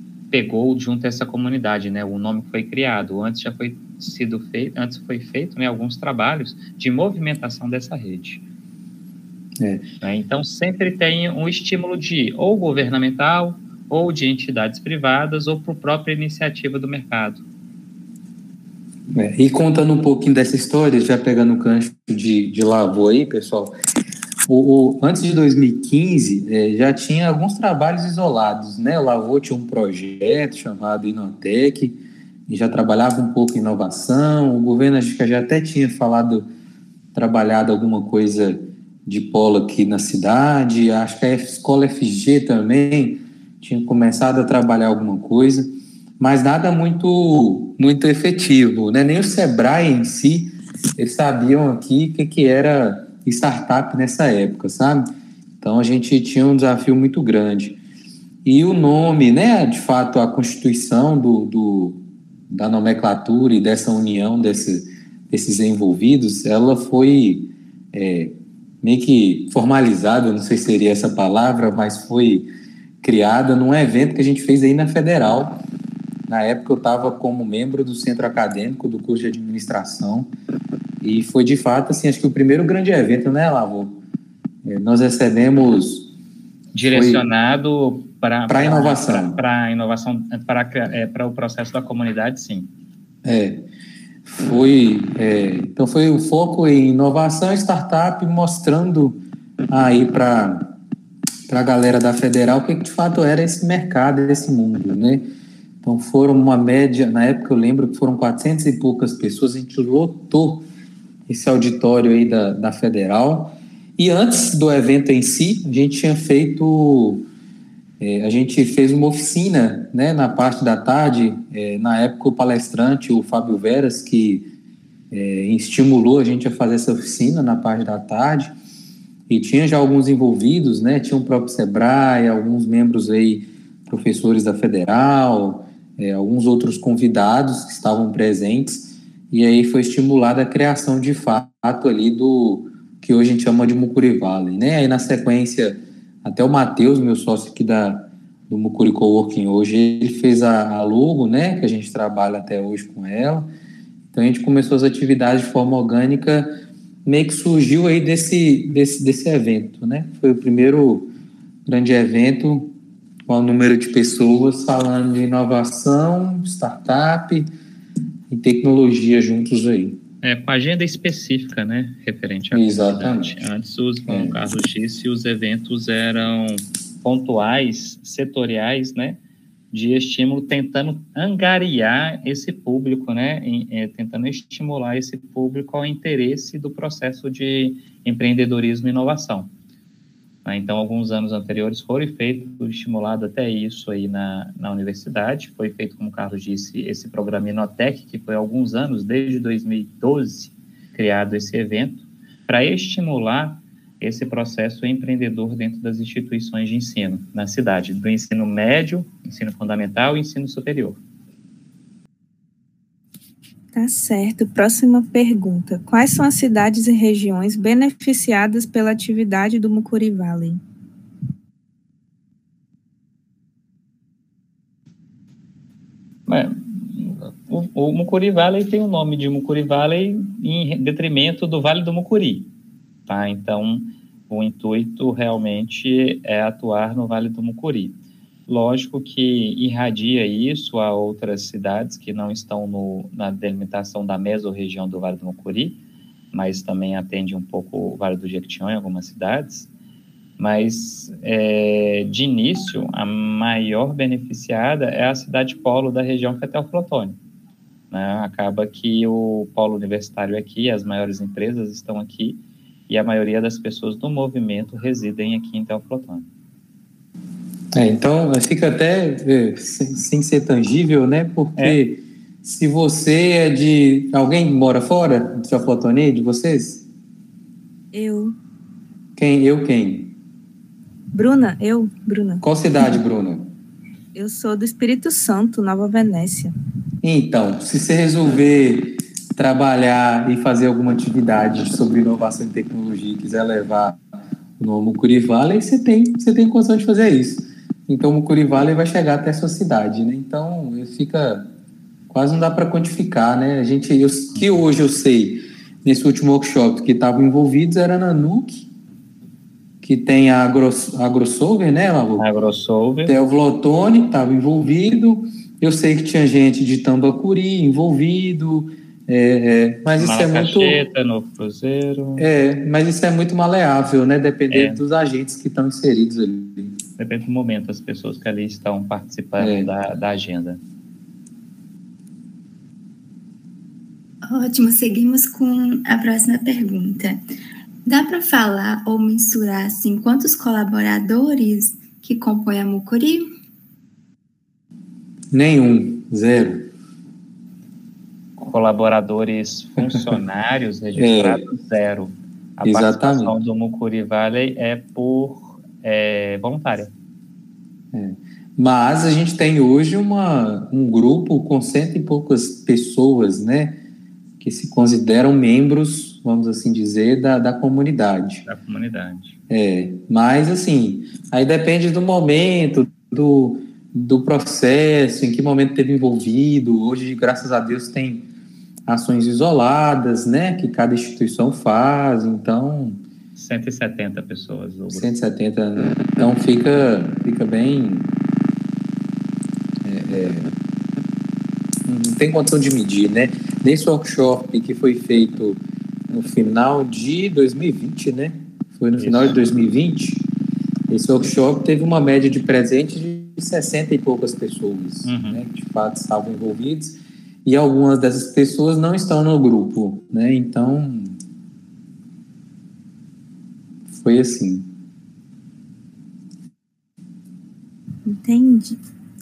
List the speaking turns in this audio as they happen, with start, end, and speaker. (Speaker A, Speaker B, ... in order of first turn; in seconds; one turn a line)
Speaker A: 0.3-8.4
Speaker B: 9.6-9.8
Speaker A: 10.0-17.4
Speaker B: 19.1-23.7
Speaker B: 24.5-36.5
Speaker B: 37.1-55.1
Speaker B: 55.6-57.8
Speaker B: 58.4-72.5
Speaker B: 73.0-75.6
Speaker B: 76.3-80.3
Speaker B: 81.0-84.0
Speaker B: 84.6-86.1
Speaker A: 86.7-92.7
Speaker B: 86.8-87.2
Speaker B: 88.5-89.4
Speaker B: 93.2-93.6
Speaker B: 94.2-100.7
Speaker B: 101.5-105.3
Speaker B: 105.8-110.6
Speaker B: 111.3-117.3
Speaker B: 118.0-124.5
Speaker B: 125.1-128.5
Speaker B: 129.3-153.5
Speaker B: 154.1-156.5
Speaker B: 157.0-161.1
Speaker B: 161.7-162.7
Speaker B: 163.3-167.5
Speaker B: 168.3-170.0
Speaker A: 170.2-179.2
Speaker B: 172.5-173.3
Speaker B: 174.1-174.4
Speaker A: 179.7-189.5
Speaker A: 190.4-211.0
Speaker C: 213.7-220.6
Speaker A: 226.3-232.5
Speaker A: 233.1-245.8
Speaker A: 246.3-249.7
Speaker A: 250.4-257.2
Speaker A: 257.9-266.3
Speaker B: 267.7-276.8
Speaker C: 277.9-278.3
Speaker B: 279.1-280.1
Speaker C: 281.1-283.0
Speaker B: 282.4-283.5
Speaker C: 284.1-286.5
Speaker B: 287.0-294.0
Speaker B: 294.6-301.5
Speaker B: 302.1-308.7
Speaker B: 309.8-312.2
Speaker A: 312.2-313.1
Speaker B: 313.1-320.8
Speaker A: 320.0-322.3
Speaker B: 322.2-326.8
Speaker A: 324.5-324.8
Speaker A: 327.0-330.6
Speaker B: 329.4-329.7
Speaker D: 334.2-337.2
Speaker D: 337.8-343.3
Speaker B: 345.3-346.7
Speaker A: 348.4-356.9
Speaker B: 349.8-350.0
Speaker B: 350.9-351.4
Speaker B: 352.6-353.3
Speaker B: 357.9-363.8
Speaker B: 364.4-368.4
Speaker A: 368.4-369.4
Speaker B: 369.5-378.2
Speaker B: 378.9-383.0
Speaker A: 383.4-385.1
Speaker B: 384.9-388.1
Speaker B: 389.8-390.5
Speaker B: 391.9-395.6
Speaker B: 396.1-400.2
Speaker A: 399.0-399.4
Speaker B: 400.9-411.1
Speaker A: 405.0-405.4
Speaker B: 413.9-414.7
Speaker C: 418.0-418.8